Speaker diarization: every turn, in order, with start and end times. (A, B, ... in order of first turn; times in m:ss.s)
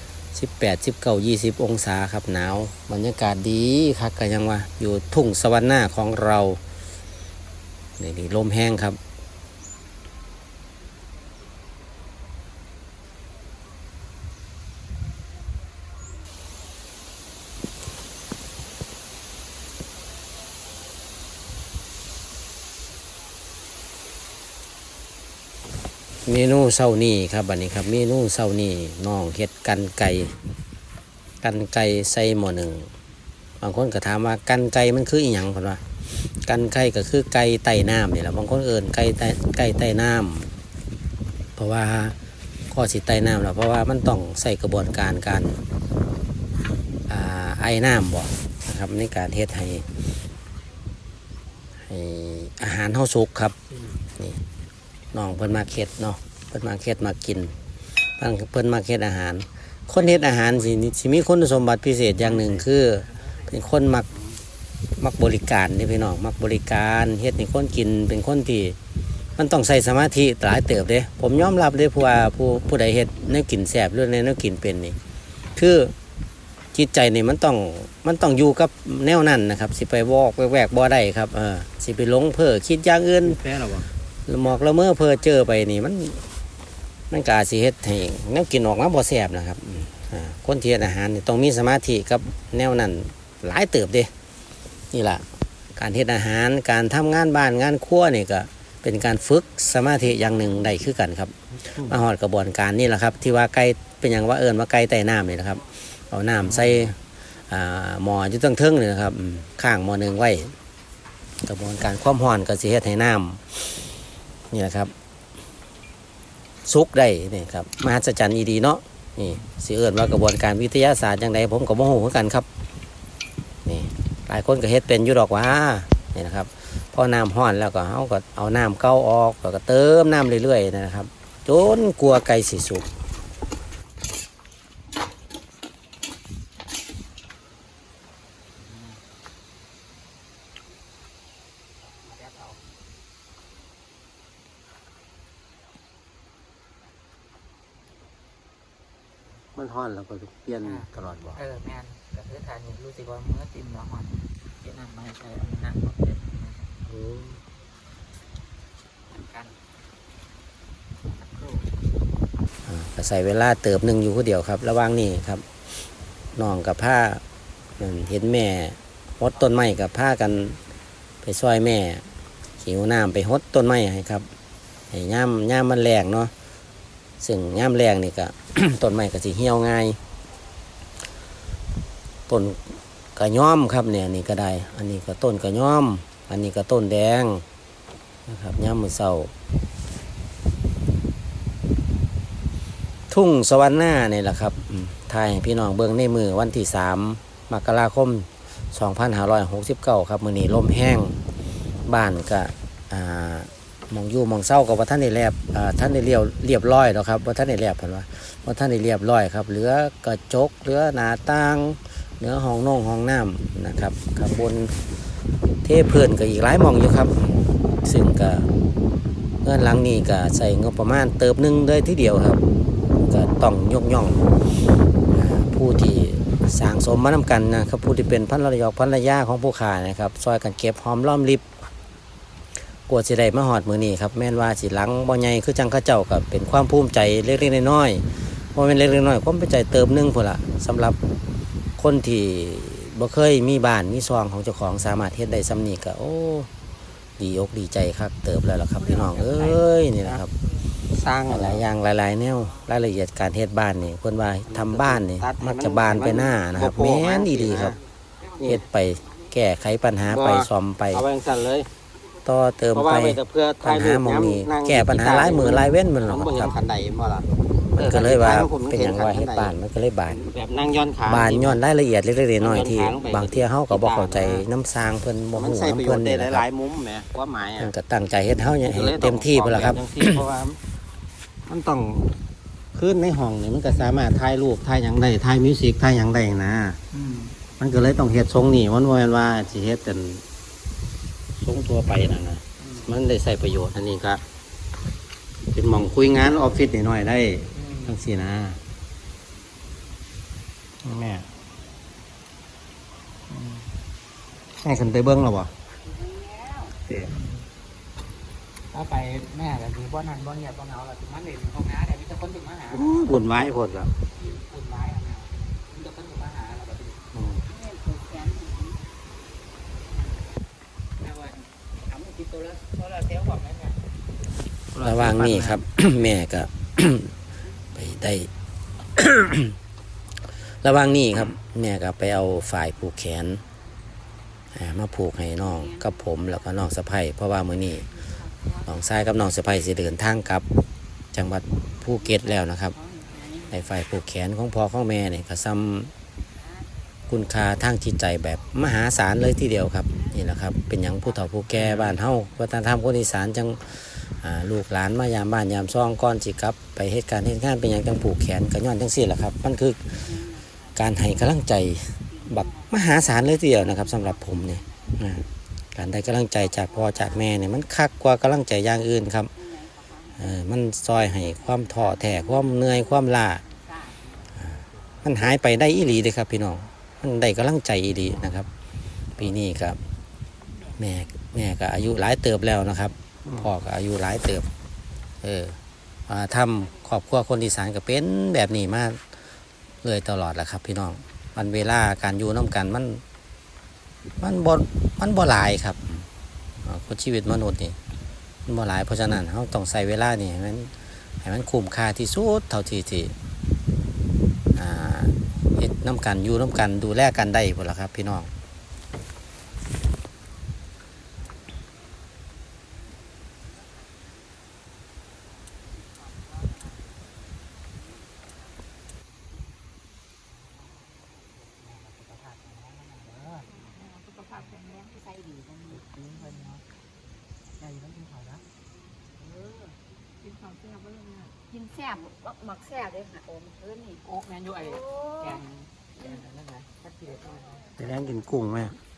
0:00.3-0:06.6 A
0:08.0-0:09.0 A
0:26.3-0:30.4 A
0:31.4-0:32.9 A
0:33.6-0:35.8 A
0:36.4-0:40.5 A
0:41.6-0:42.2 A
0:42.7-0:45.6 A
0:47.1-0:49.9 A
0:51.9-0:53.6 A
0:55.1-0:57.6 A
0:58.2-1:04.1 A
1:02.2-1:02.5 B
1:05.0-1:08.8 A
1:09.4-1:15.0 A
1:15.6-1:15.9 A
1:16.7-1:23.4 A
1:23.2-1:23.9 B
1:24.3-1:26.2 A
1:27.1-1:34.1 A
1:34.9-1:35.2 A
1:35.8-1:47.0 A
1:41.5-1:42.0 B
1:46.4-1:46.9 B
1:47.5-1:50.5 A
1:51.4-1:53.7 A
1:54.5-1:54.9 A
1:56.6-2:02.5 A
2:03.6-2:12.9 A
2:18.6-2:19.0 C
2:22.0-2:22.6 C
2:29.6-2:31.4 B
2:30.6-2:36.8 C
2:36.9-2:37.4 B
2:39.1-2:39.6 C
2:42.7-2:45.4 A
2:46.4-2:47.2 A
2:47.8-2:50.6 A
2:51.2-2:52.1 A
2:52.6-2:54.3 A
2:54.9-2:56.3 A
2:57.2-3:00.0 A
3:02.3-3:07.4 A
3:08.3-3:09.3 A
3:13.1-3:21.2 A
3:21.9-3:34.8 A
3:35.6-3:37.2 A
3:37.8-3:38.5 A
3:39.4-3:42.4 A
3:43.1-3:44.2 A
3:45.1-3:51.5 A
3:52.9-4:01.0 A
4:01.8-4:06.5 A
4:07.2-4:10.3 A
4:08.9-4:10.2 B
4:10.9-4:11.6 B
4:11.3-4:17.8 A
4:14.5-4:17.8 B
4:18.2-4:19.4 C
4:18.4-4:21.0 A
4:20.1-4:21.7 B
4:22.2-4:26.6 A
4:22.7-4:29.6 B
4:27.8-4:30.3 A
4:30.1-4:31.6 B
4:31.1-4:36.4 A
4:32.4-4:34.5 B
4:35.4-4:37.7 B
4:37.6-4:40.2 A
4:38.3-4:40.6 B
4:41.5-4:42.1 B
4:42.8-4:44.7 B
4:43.6-4:44.1 A
4:44.6-4:46.8 A
4:45.4-4:47.0 B
4:47.6-4:48.7 B
4:47.7-4:50.2 A
4:51.4-4:54.2 A
4:55.5-4:58.6 A
5:00.9-5:01.1 B
5:03.3-5:03.6 B
5:04.6-5:05.5 B
5:04.7-5:05.2 A
5:05.9-5:07.5 C
5:08.7-5:13.3 C
5:12.7-5:13.9 B
5:13.0-5:13.8 A
5:14.1-5:17.1 C
5:17.1-5:17.4 B
5:17.4-5:18.8 D
5:21.0-5:23.8 C
5:24.7-5:25.6 B
5:24.8-5:27.1 A
5:27.8-5:28.3 A
5:29.0-5:29.6 A
5:30.6-5:33.4 A
5:34.5-5:37.9 A
5:35.6-5:36.5 D
5:37.9-5:38.7 D
5:38.7-5:40.5 A
5:41.1-5:42.8 A
5:42.7-5:43.5 D
5:42.9-5:43.4 C
5:43.5-5:45.9 A
5:46.4-5:46.7 D
5:47.1-6:00.0 A
5:51.5-5:52.0 B
6:00.0-6:00.7 D
6:00.8-6:05.2 A
6:02.1-6:03.0 D
6:03.7-6:05.2 D
6:05.8-6:09.3 A
6:06.4-6:07.4 D
6:09.4-6:14.1 D
6:10.2-6:13.4 A
6:14.4-6:18.5 A
6:19.2-6:19.8 A
6:20.8-6:24.5 A
6:25.2-6:25.6 A
6:26.1-6:29.0 A
6:29.8-6:33.0 A
6:34.2-6:36.1 A
6:36.6-6:37.8 A
6:38.5-6:43.1 A
6:44.6-6:48.3 A
7:01.3-7:03.7 C
7:03.5-7:05.9 D
7:05.7-7:06.6 C
7:07.6-7:08.4 C
7:09.2-7:09.8 C
7:10.2-7:14.0 D
7:14.0-7:17.7 C
7:14.6-7:15.4 D
7:17.8-7:18.7 B